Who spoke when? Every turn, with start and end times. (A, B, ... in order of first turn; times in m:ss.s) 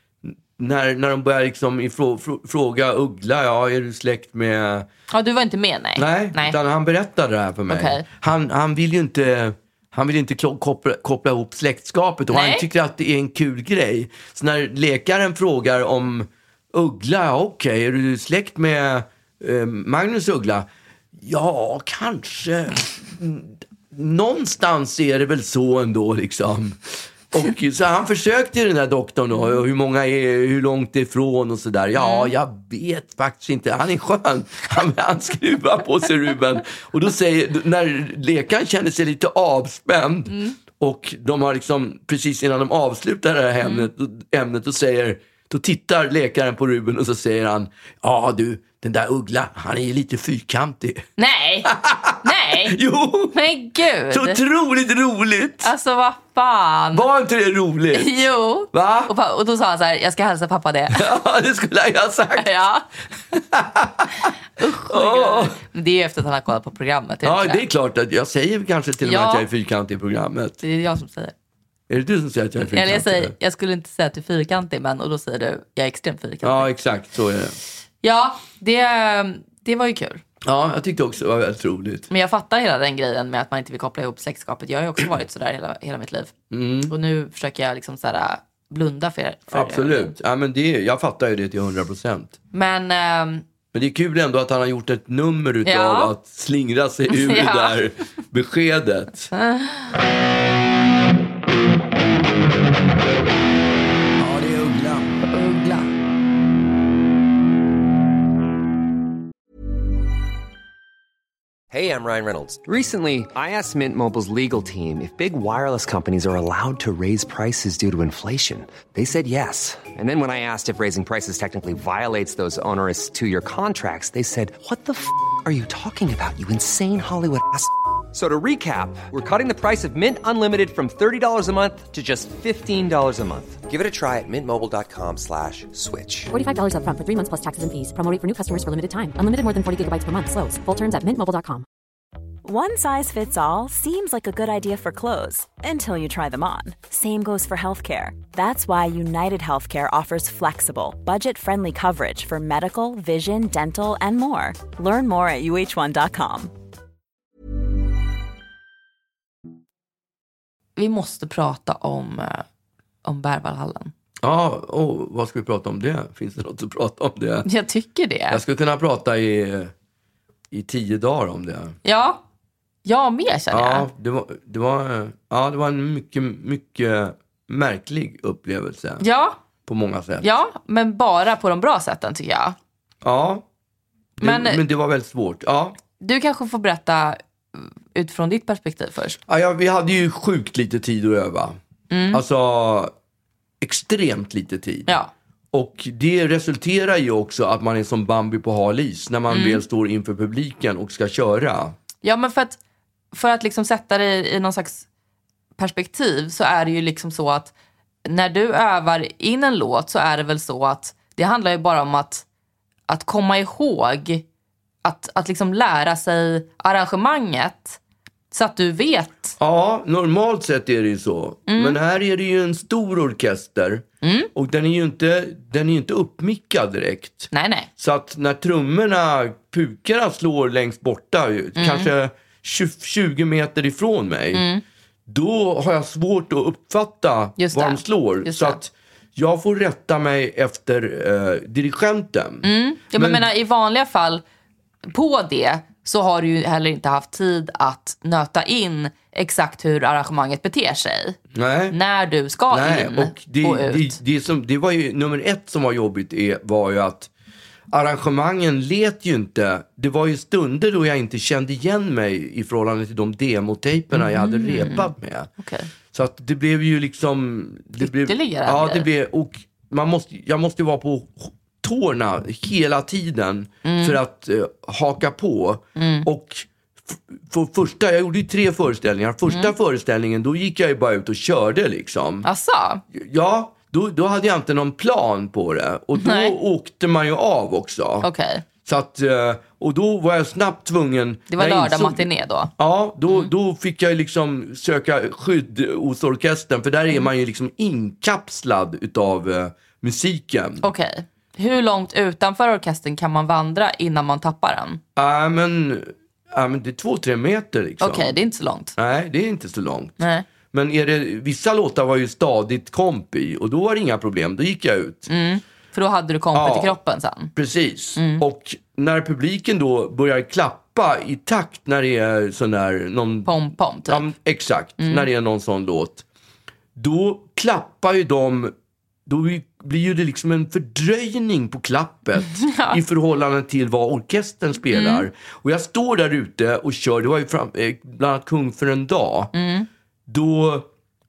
0:00.2-0:04.9 A
0:05.1-0:06.6 B
0:06.0-0:20.6 A
0:07.7-0:08.0 B
0:12.3-0:12.6 B
0:21.2-0:26.8 A
0:27.3-0:51.0 A
0:32.0-0:32.3 B
0:40.3-0:40.6 B
0:43.6-0:43.9 B
0:51.2-0:52.8 B
0:51.6-0:53.4 A
0:53.3-0:54.4 B
0:54.1-0:55.7 A
0:55.6-0:57.1 B
0:56.9-0:58.2 A
0:57.9-1:01.1 B
0:58.7-0:59.1 A
1:00.9-1:02.5 A
1:02.4-1:02.8 B
1:03.3-1:05.6 A
1:04.6-1:07.6 B
1:07.2-1:10.6 A
1:09.0-1:09.4 B
1:10.6-1:11.3 B
1:11.9-1:13.3 A
1:12.6-1:16.7 B
1:16.4-1:17.6 A
1:18.0-1:20.2 B
1:20.4-1:22.1 A
1:22.1-1:26.3 B
1:26.5-1:26.9 A
1:26.9-1:30.1 B
1:29.5-1:32.4 A
1:32.5-1:33.4 B
1:33.7-1:39.3 A
1:35.6-1:36.1 B
1:37.1-1:37.9 B
1:39.3-1:39.9 B
1:44.2-1:45.2 A
1:45.3-1:45.9 B
1:51.7-2:16.3 C
2:16.3-2:21.6 D
2:22.4-2:36.5 E
2:40.8-2:42.4 B
2:43.0-2:43.9 B
2:44.2-2:47.5 A
2:47.4-2:48.4 B
2:48.3-2:49.7 A
2:50.5-2:51.7 A
2:51.8-2:52.2 B
2:52.8-2:53.9 B
2:53.5-2:59.0 A
2:59.0-2:59.4 B
2:59.6-3:00.3 A
3:00.2-3:02.6 B
3:03.0-3:03.4 A
3:04.2-3:04.6 B
3:04.2-3:05.8 A
3:06.0-3:09.2 B
3:09.3-3:11.6 A
3:11.9-3:12.2 B
3:12.1-3:12.9 A
3:13.6-3:14.9 A
3:15.5-3:21.8 A
3:19.3-3:19.6 B
3:22.0-3:22.6 B
3:23.1-3:24.8 B
3:25.6-3:27.5 B
3:28.0-3:32.2 B
3:32.9-3:34.2 B
3:34.8-3:37.8 B
3:38.3-3:39.4 B
3:39.4-3:54.4 A
3:41.5-3:41.8 B
3:44.0-3:44.3 B
3:47.3-3:47.7 B
3:51.6-3:51.9 B
3:54.3-3:54.6 B
3:55.1-4:03.2 A
3:57.4-3:58.6 B
4:02.4-4:04.2 B
4:04.9-4:11.2 B
4:11.3-4:11.8 A
4:11.7-4:14.0 B
4:12.5-4:17.1 A
4:17.7-4:25.3 A
4:23.9-4:25.7 B
4:25.9-4:42.3 A
4:27.8-4:28.9 B
4:33.6-4:34.0 B
4:35.8-4:36.1 B
4:39.3-4:39.5 B
4:42.2-4:42.8 B
4:42.9-4:48.1 A
4:45.9-4:46.4 B
4:48.0-4:48.4 B
4:48.6-4:52.1 A
4:51.3-4:52.5 B
4:52.6-5:00.6 A
5:00.6-5:04.8 B
5:05.0-5:08.1 A
5:07.8-5:08.7 B
5:08.8-5:10.0 A
5:10.0-5:10.2 B
5:10.5-5:15.1 A
5:15.1-5:17.3 B
5:16.3-5:16.8 A
5:17.3-5:23.3 A
5:18.0-5:18.2 B
5:23.2-5:24.0 B
5:23.9-5:26.0 A
5:24.8-5:25.1 B
5:26.8-5:28.5 A
5:29.1-5:39.3 A
5:32.2-5:32.8 B
5:34.7-5:35.0 B
5:39.3-5:39.7 B
5:40.1-5:40.7 A